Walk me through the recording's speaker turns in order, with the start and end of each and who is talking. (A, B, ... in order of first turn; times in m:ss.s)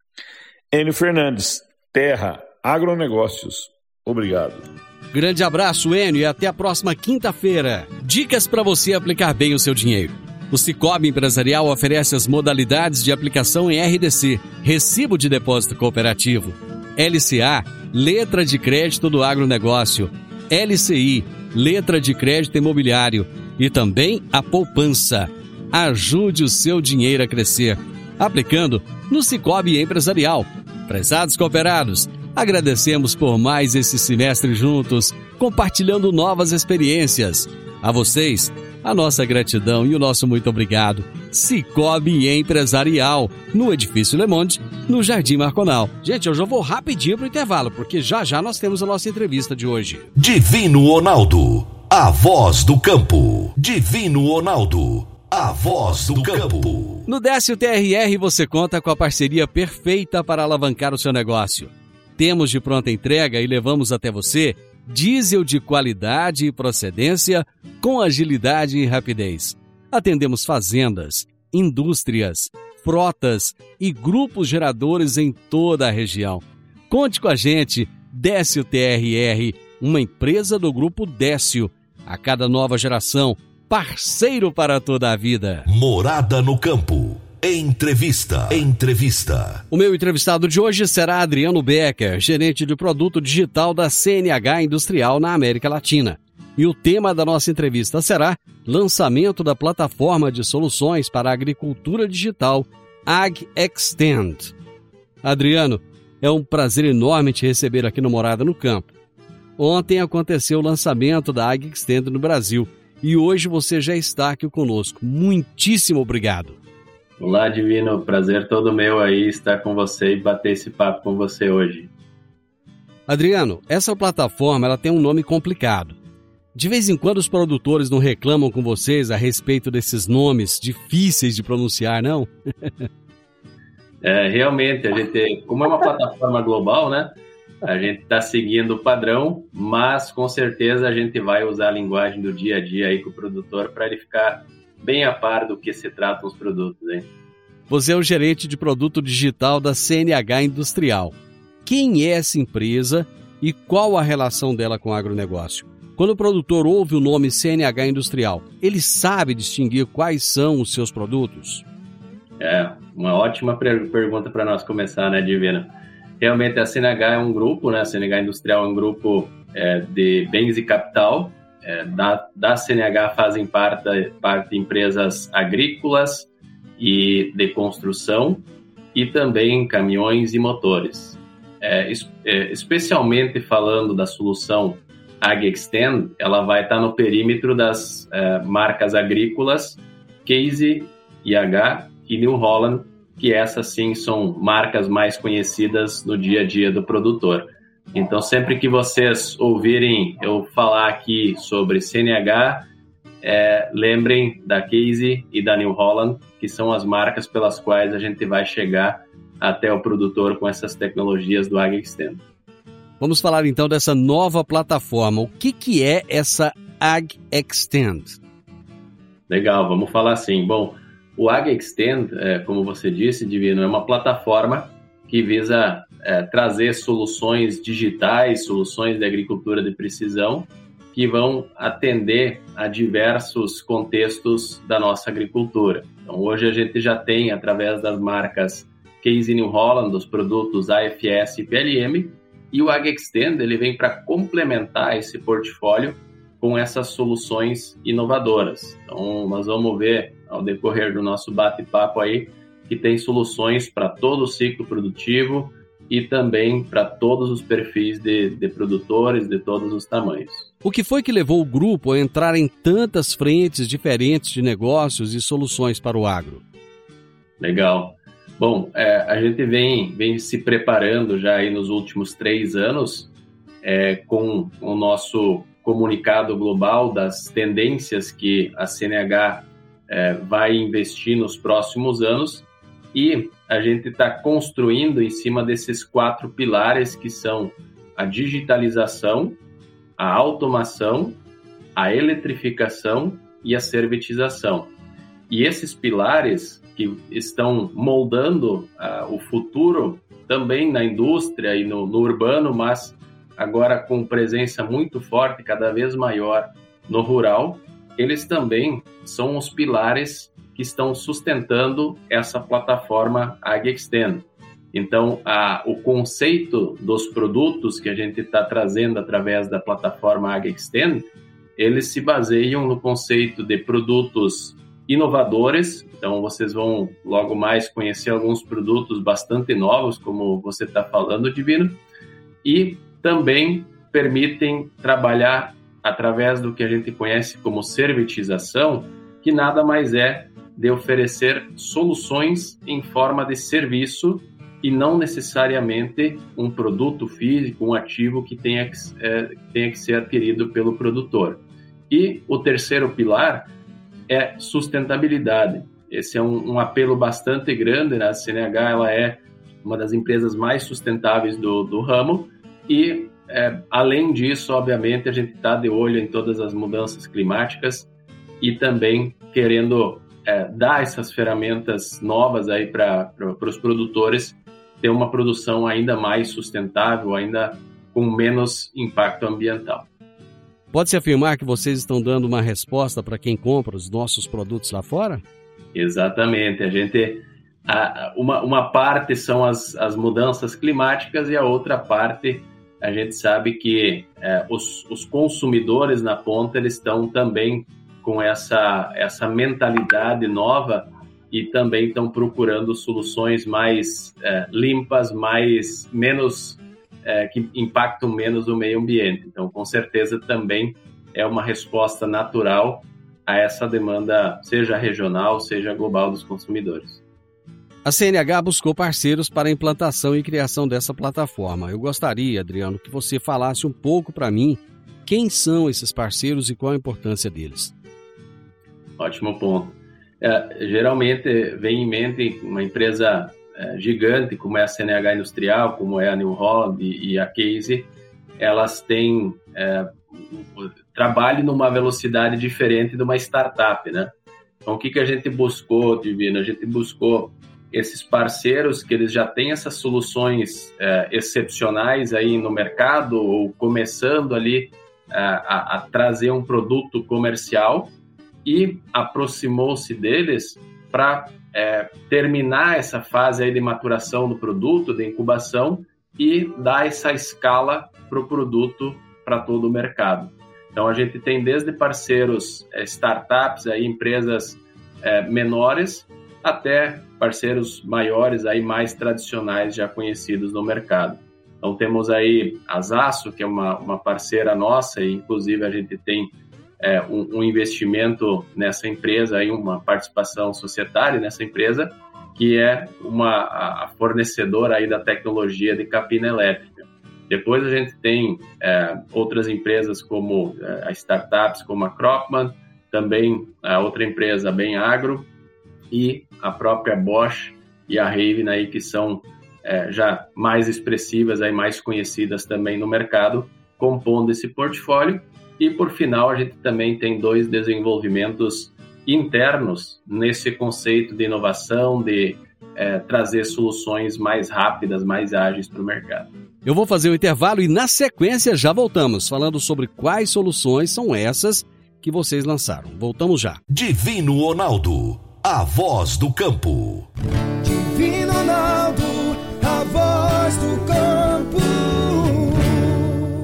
0:00.7-0:04.7 A
0:05.1-0:50.1 B
0:50.2-0:57.0 C
0:57.1-1:25.7 B
1:25.7-1:29.6 C
1:29.7-1:44.6 B
1:45.2-1:48.9 B
1:49.6-1:56.6 B
1:57.2-2:01.9 D
2:03.1-2:06.0 B
2:06.6-2:12.7 B
2:14.0-2:27.1 D
2:27.7-2:41.6 B
2:42.4-2:45.7 D
2:46.2-3:22.7 D
3:23.2-3:32.2 D
3:33.0-3:38.2 B
3:39.3-4:20.5 D
4:20.6-4:26.4 B
4:27.4-4:33.1 D
4:33.6-4:49.4 D
4:50.0-4:51.2 D
4:51.8-4:54.7 D
4:55.3-5:31.8 D
5:32.4-5:53.5 D
5:54.1-6:07.9 D
6:08.4-6:19.9 D
6:20.7-6:25.2 B
6:25.8-6:57.0 D
6:57.8-7:07.7 B
7:09.0-7:24.1 D
7:24.6-7:37.9 D
7:38.4-8:25.3 D
8:25.9-8:46.3 D
8:46.6-8:53.6 B
8:53.7-8:57.1 C
8:57.6-9:03.0 E